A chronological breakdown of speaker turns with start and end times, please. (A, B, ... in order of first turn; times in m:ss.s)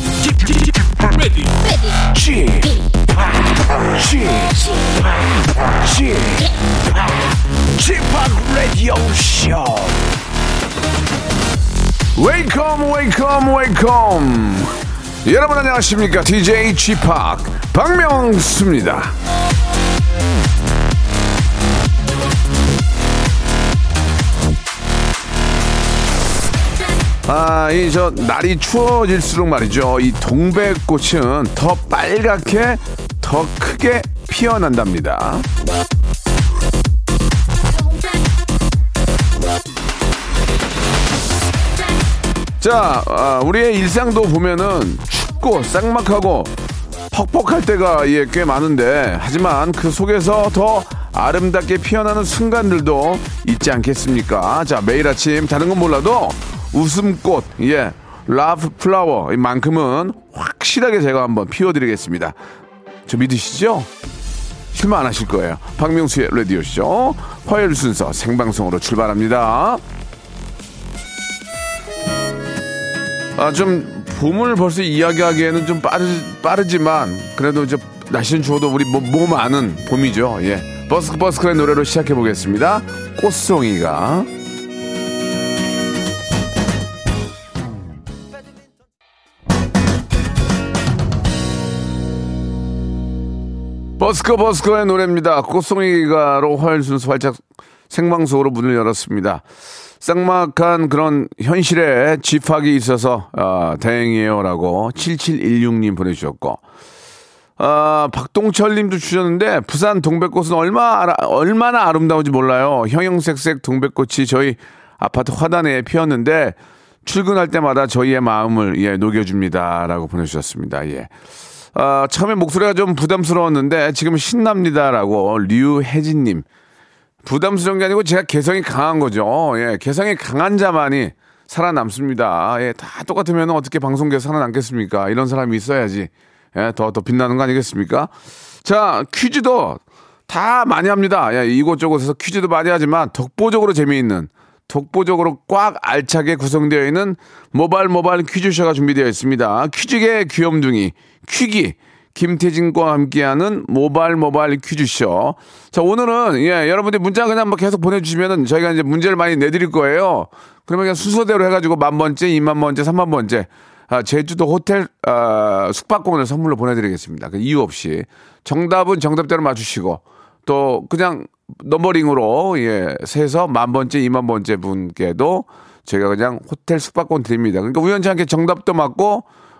0:00.2-0:10.2 A
0:12.1-0:19.2 A
0:27.3-0:35.5 A
0:42.6-0:46.6 A
0:47.1-1:02.4 A
1:03.1-1:03.9 A
1:04.7-1:09.8 A
1:13.4-1:24.3 A
1:34.0-1:39.4 A
1:40.0-1:46.6 A
1:47.6-2:01.1 A
2:01.7-2:06.4 A
2:07.2-2:18.1 A
2:18.6-2:59.2 A